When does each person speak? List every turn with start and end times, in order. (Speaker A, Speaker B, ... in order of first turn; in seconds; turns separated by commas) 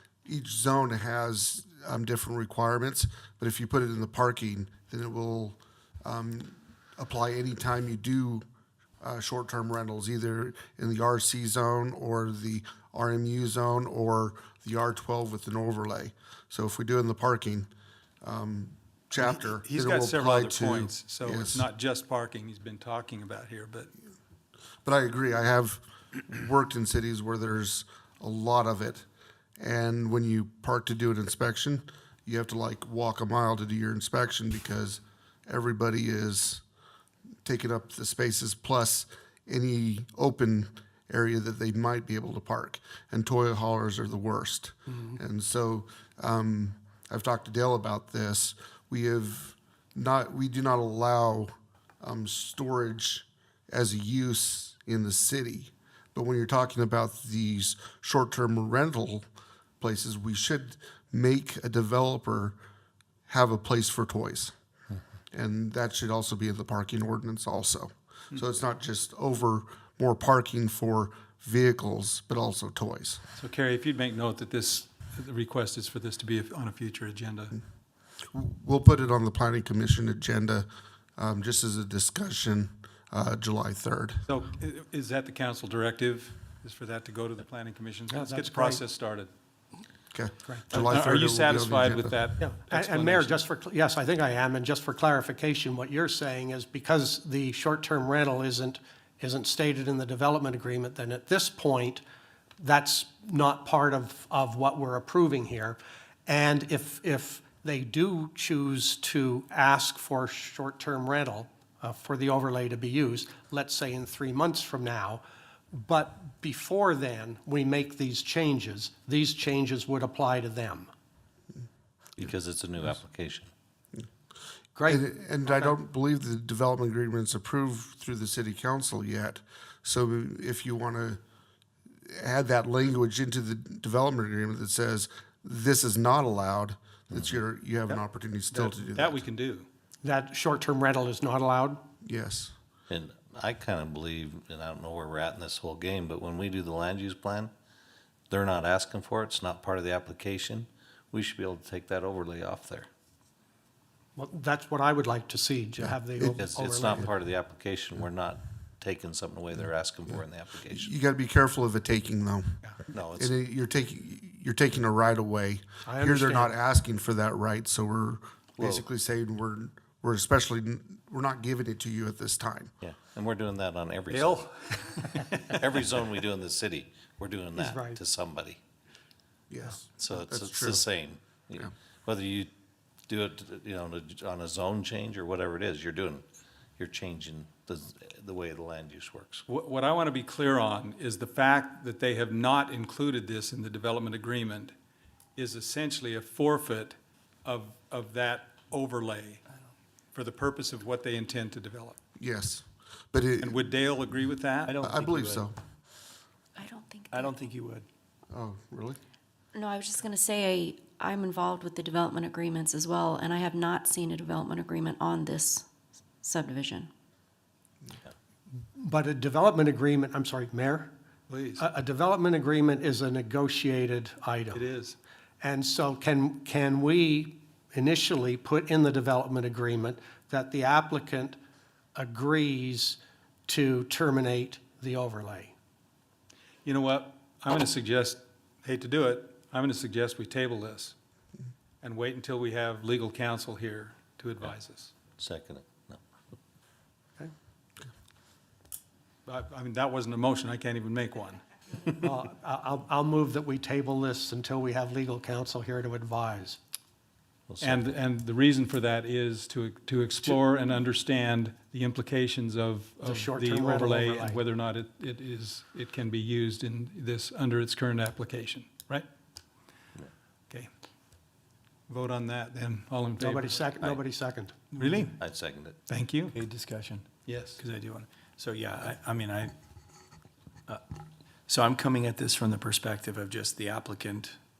Speaker A: 0.2-8.4, Speaker A: 9.0-17.7, Speaker A: 18.2-21.6, Speaker B: 19.2-23.9, Speaker A: 24.8-29.0, Speaker A: 29.6-36.6, Speaker A: 37.4-59.2, Speaker A: 59.8-62.5, Speaker A: 63.3-64.5, Speaker A: 65.3-73.2, Speaker B: 73.4-77.5, Speaker A: 78.3-80.7, Speaker A: 81.2-84.2, Speaker B: 84.3-89.3, Speaker C: 88.1-88.8, Speaker A: 90.1-92.2, Speaker C: 90.4-90.8, Speaker B: 90.7-93.4, Speaker C: 92.4-102.0, Speaker C: 102.6-120.9, Speaker D: 122.2-123.5, Speaker C: 124.7-125.7, Speaker A: 124.8-131.2, Speaker A: 132.1-139.2, Speaker D: 137.1-137.4, Speaker B: 137.9-139.7, Speaker C: 140.0-141.8, Speaker A: 142.0-142.5, Speaker D: 142.9-147.5, Speaker D: 148.3-152.9, Speaker C: 154.2-157.1, Speaker D: 156.3-160.9, Speaker A: 160.7-162.6, Speaker D: 162.9-163.3, Speaker A: 163.2-172.7, Speaker C: 165.8-166.5, Speaker D: 168.6-168.8, Speaker D: 172.8-174.7, Speaker B: 174.1-175.6, Speaker D: 175.4-178.6, Speaker C: 177.6-178.0, Speaker A: 179.5-180.8, Speaker D: 180.0-182.5, Speaker D: 183.1-186.2, Speaker D: 186.8-189.4, Speaker B: 189.5-194.7, Speaker B: 195.3-199.4, Speaker B: 200.1-202.0, Speaker A: 202.2-203.6, Speaker B: 203.4-204.8, Speaker E: 204.7-205.4, Speaker A: 204.8-205.6, Speaker F: 206.6-207.2, Speaker E: 207.1-207.8, Speaker A: 208.3-209.0, Speaker F: 209.5-215.6, Speaker F: 216.2-216.8, Speaker C: 218.7-220.9, Speaker B: 221.3-221.6, Speaker C: 221.6-224.6, Speaker B: 224.5-224.9, Speaker C: 225.4-231.3, Speaker C: 231.9-235.5, Speaker B: 236.6-240.9, Speaker B: 241.8-244.9, Speaker D: 245.2-246.0, Speaker B: 249.2-251.4, Speaker C: 252.0-256.6, Speaker D: 257.5-257.8, Speaker B: 257.6-269.1, Speaker C: 263.0-264.4, Speaker B: 271.9-273.6, Speaker C: 273.2-274.6, Speaker B: 274.7-275.2, Speaker D: 275.2-275.8, Speaker B: 275.9-276.4, Speaker E: 276.4-279.5, Speaker B: 277.2-277.6, Speaker E: 281.5-284.3